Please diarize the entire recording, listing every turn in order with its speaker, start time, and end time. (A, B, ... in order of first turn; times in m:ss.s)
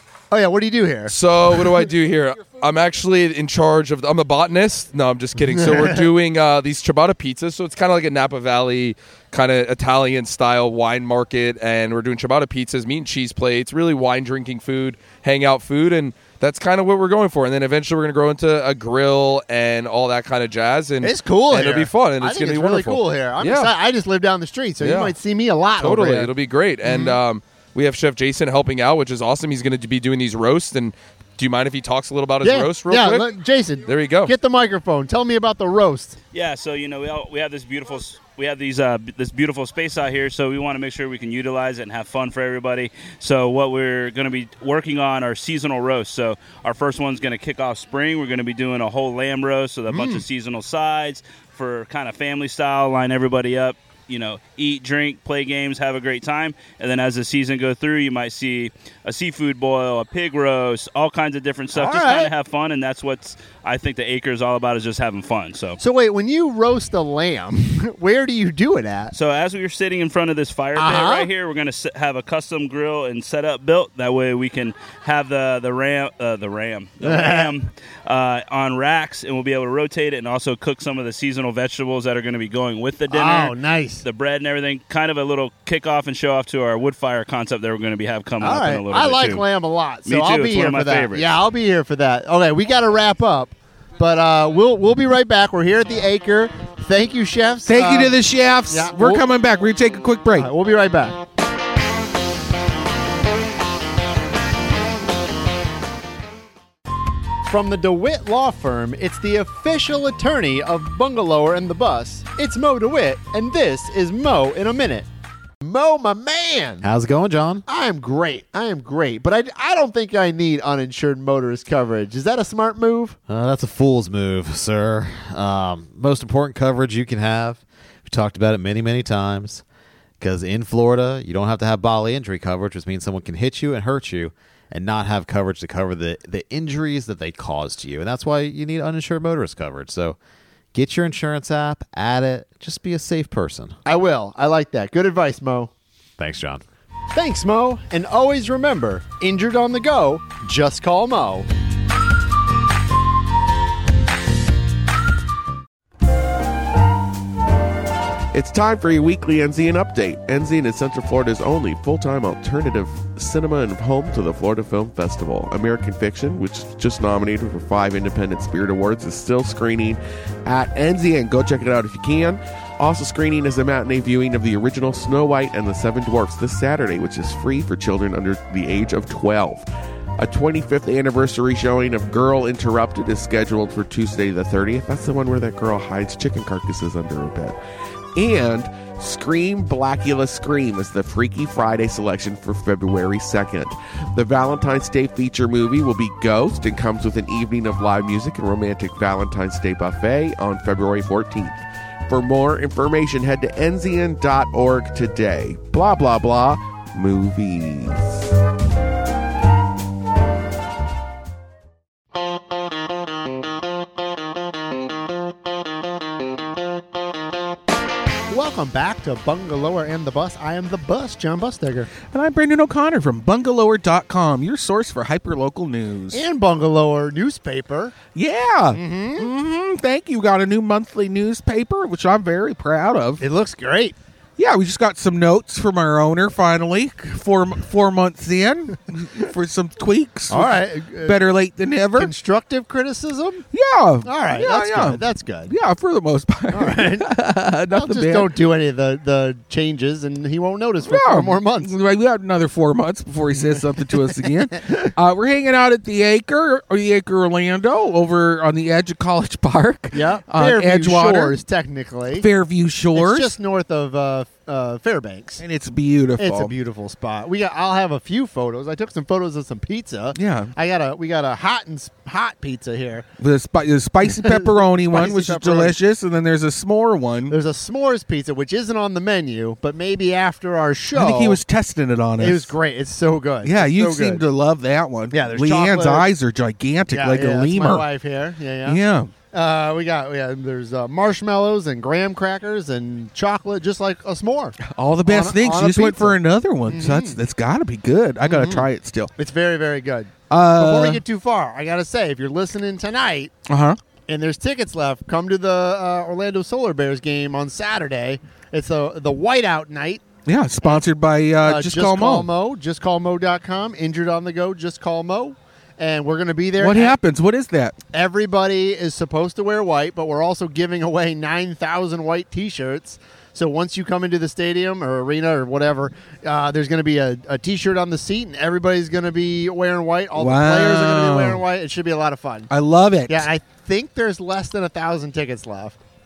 0:00.3-0:01.1 A
0:01.1-0:23.7 B
0:05.5-0:06.0 A
0:21.0-0:26.3 A
0:24.8-0:25.2 B
0:25.8-0:33.3 B
0:26.8-0:27.2 A
0:32.4-0:36.2 A
0:33.9-0:34.3 B
0:36.3-1:05.8 C
0:49.9-0:50.2 A
1:01.7-1:02.3 A
1:05.8-1:09.1 A
1:09.1-1:29.4 C
1:10.8-1:11.3 A
1:17.0-1:17.5 A
1:23.1-1:24.0 A
1:28.4-1:39.3 A
1:30.1-1:31.3 C
1:37.7-1:40.5 D
1:40.4-1:41.2 A
1:47.5-1:55.1 A
1:55.6-1:56.9 A
1:56.8-1:57.6 E
1:57.7-2:03.2 A
2:03.3-2:09.6 E
2:10.2-2:20.2 E
2:20.7-2:23.8 E
2:23.8-2:25.7 A
2:26.2-2:26.6 E
2:27.1-2:31.5 A
2:38.3-2:59.7 F
3:00.2-3:07.6 F
3:08.2-3:28.2 F
3:38.3-3:41.9 A
3:42.1-3:46.2 D
3:46.1-3:48.0 A
3:48.2-3:53.2 D
3:48.7-3:49.3 A
3:53.2-3:54.0 A
3:54.4-4:02.1 D
4:00.3-4:01.2 A
4:02.0-4:03.4 A
4:03.5-4:08.3 D
4:04.0-4:05.5 A
4:06.5-4:07.1 A
4:07.7-4:11.7 A
4:10.8-4:21.4 D
4:13.3-4:14.9 A
4:19.9-4:22.3 A
4:22.1-4:23.4 D
4:22.9-4:25.4 A
4:25.4-4:26.5 D
4:26.2-4:33.0 A
4:30.2-4:30.5 D
4:33.2-4:37.4 D
4:34.1-4:35.8 A
4:37.3-4:41.4 A
4:41.0-4:42.6 D
4:42.2-4:44.2 A
4:43.4-4:47.9 D
4:45.1-4:46.1 A
4:46.9-4:48.8 A
4:48.6-4:49.1 D
4:49.3-4:57.2 A
4:54.6-4:59.1 D
4:58.2-5:03.3 A
5:00.3-5:01.0 D
5:03.5-5:03.8 D
5:04.1-5:10.0 A
5:10.3-5:12.3 D
5:11.4-5:17.0 A
5:16.6-5:17.8 D
5:17.9-5:32.5 A
5:30.2-5:31.4 D
5:32.5-5:33.3 D
5:33.1-5:35.8 A